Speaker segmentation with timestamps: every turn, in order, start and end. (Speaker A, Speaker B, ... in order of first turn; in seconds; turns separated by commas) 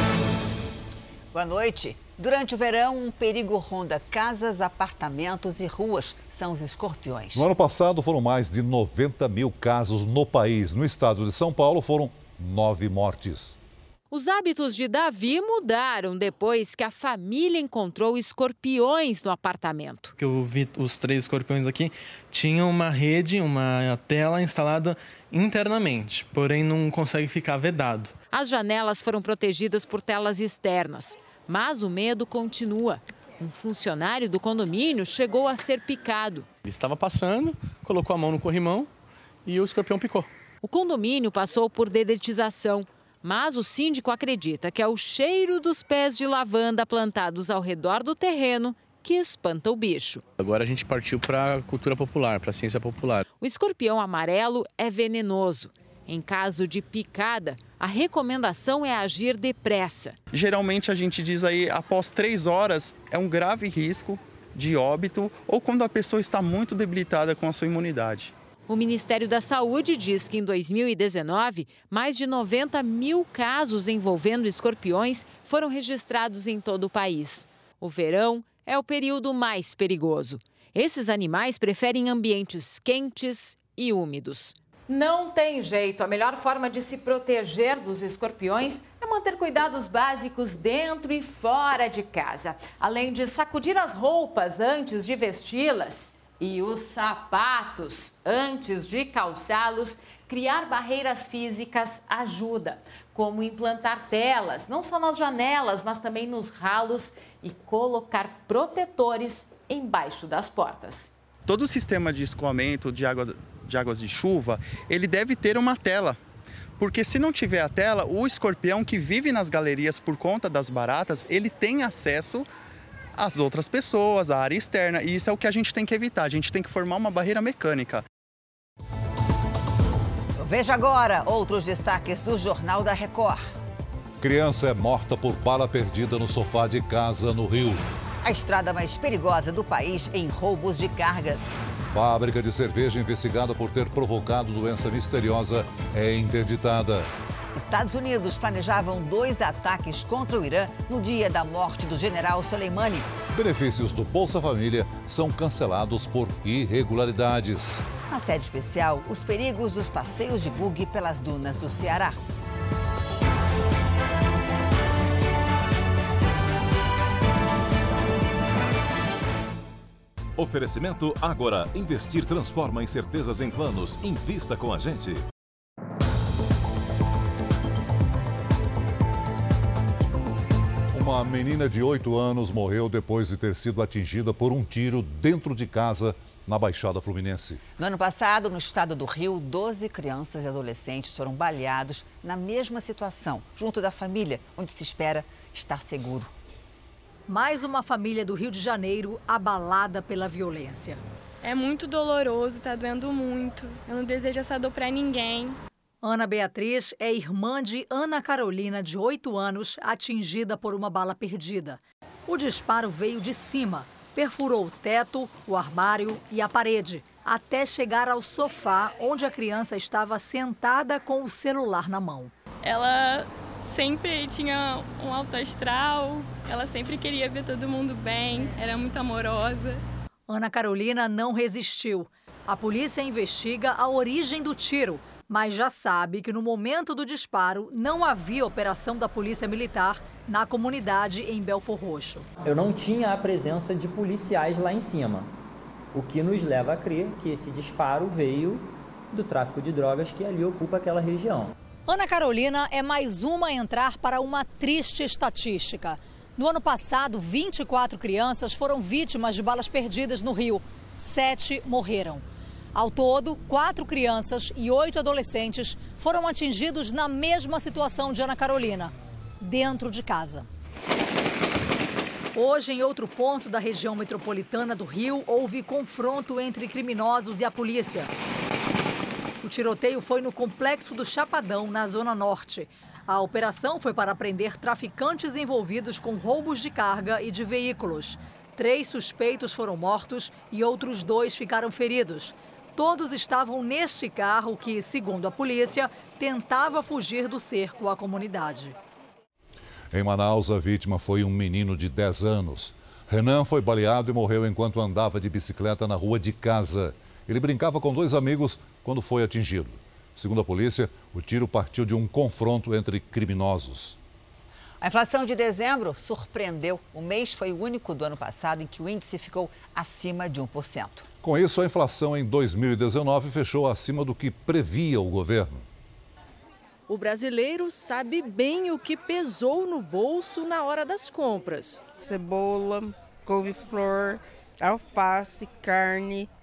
Speaker A: 1.3-7.5, Speaker B: 7.3-13.6, Speaker C: 14.1-20.1, Speaker D: 20.2-28.1, Speaker C: 28.3-36.5, Speaker D: 36.6-38.9, Speaker D: 39.4-40.3, Speaker C: 40.6-50.2, Speaker D: 50.4-53.2, Speaker C: 53.4-60.2, Speaker E: 60.3-68.3, Speaker C: 68.7-111.1, Speaker E: 111.5-116.2, Speaker E: 116.8-122.5, Speaker E: 123.2-128.0, Speaker A: 130.4-133.4, Speaker B: 134.2-137.8, Speaker A: 138.2-141.6, Speaker B: 141.9-147.1, Speaker A: 147.5-153.1, Speaker B: 153.3-157.8, Speaker A: 158.1-162.2, Speaker F: 170.4-175.3, Speaker B: 180.9-187.6, Speaker A: 187.8-196.3, Speaker G: 197.3-201.0, Speaker H: 201.4-205.6, Speaker G: 206.0-222.3, Speaker H: 222.6-229.8, Speaker G: 230.3-242.3, Speaker I: 242.4-245.3, Speaker I: 245.9-251.5, Speaker G: 251.9-262.2, Speaker G: 262.7-270.5, Speaker G: 272.3-278.1, Speaker G: 279.4-298.8, Speaker B: 299.9-314.0, Speaker A: 314.8-321.1, Speaker B: 321.2-325.6, Speaker J: 326.9-331.9, Speaker K: 332.0-336.3